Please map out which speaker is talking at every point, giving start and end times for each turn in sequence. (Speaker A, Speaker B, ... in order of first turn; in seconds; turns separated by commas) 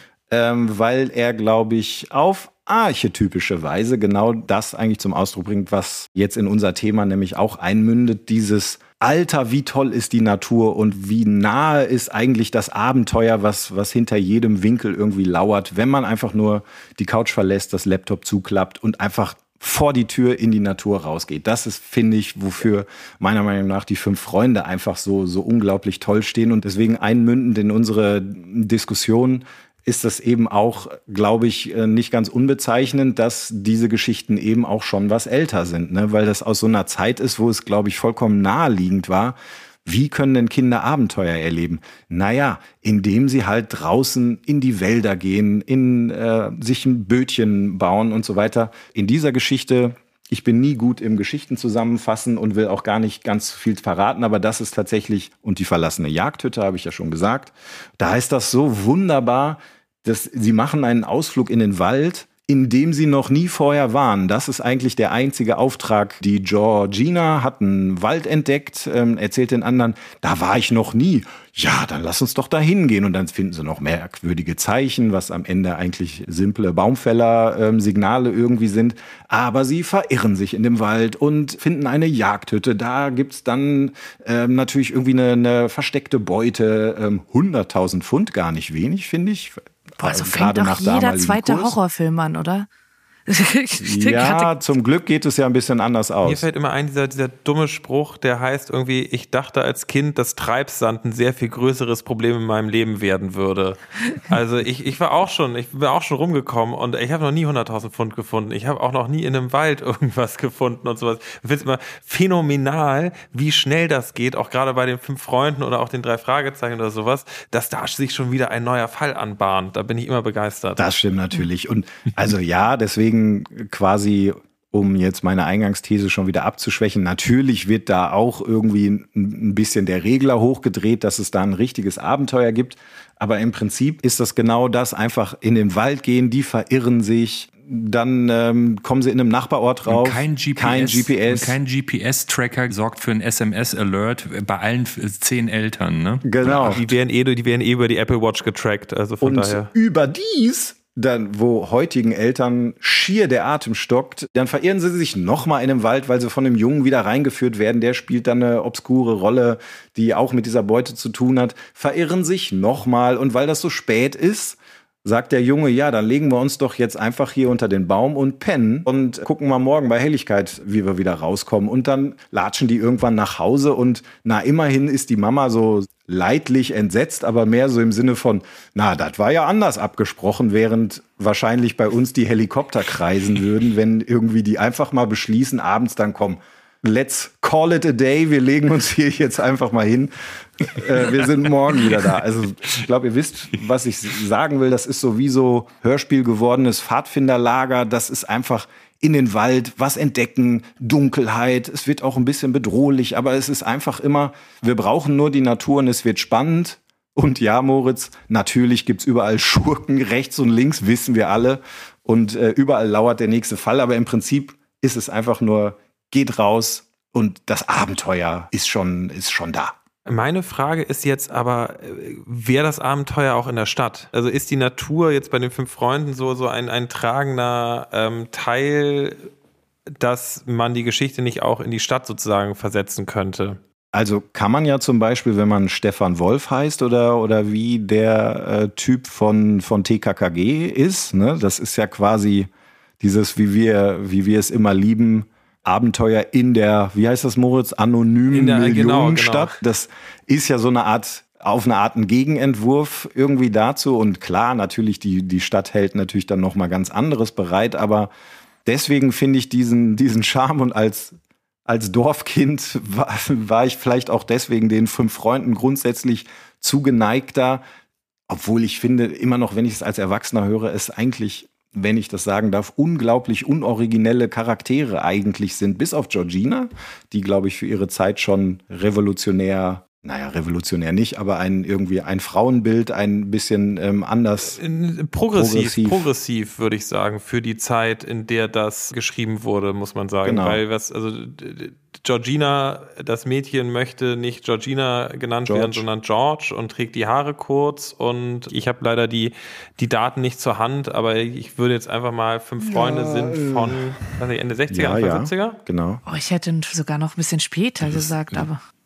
Speaker A: 0.3-91.8, Speaker B: 90.0-92.7, Speaker B: 93.3-94.6, Speaker A: 93.8-96.4, Speaker C: 96.2-120.9, Speaker A: 120.8-141.6, Speaker D: 139.9-146.9, Speaker A: 146.2-146.8, Speaker C: 146.6-149.7, Speaker A: 149.2-219.7, Speaker C: 220.1-229.3, Speaker C: 230.0-233.6, Speaker A: 233.9-242.5, Speaker A: 243.0-258.1, Speaker C: 248.3-249.6, Speaker A: 258.6-261.1, Speaker A: 261.7-267.6, Speaker A: 268.3-284.6, Speaker C: 284.5-305.6, Speaker A: 285.3-286.1, Speaker A: 290.2-290.6, Speaker A: 295.4-295.9, Speaker A: 302.6-303.9, Speaker A: 304.7-306.0, Speaker B: 306.1-308.6, Speaker D: 307.8-308.5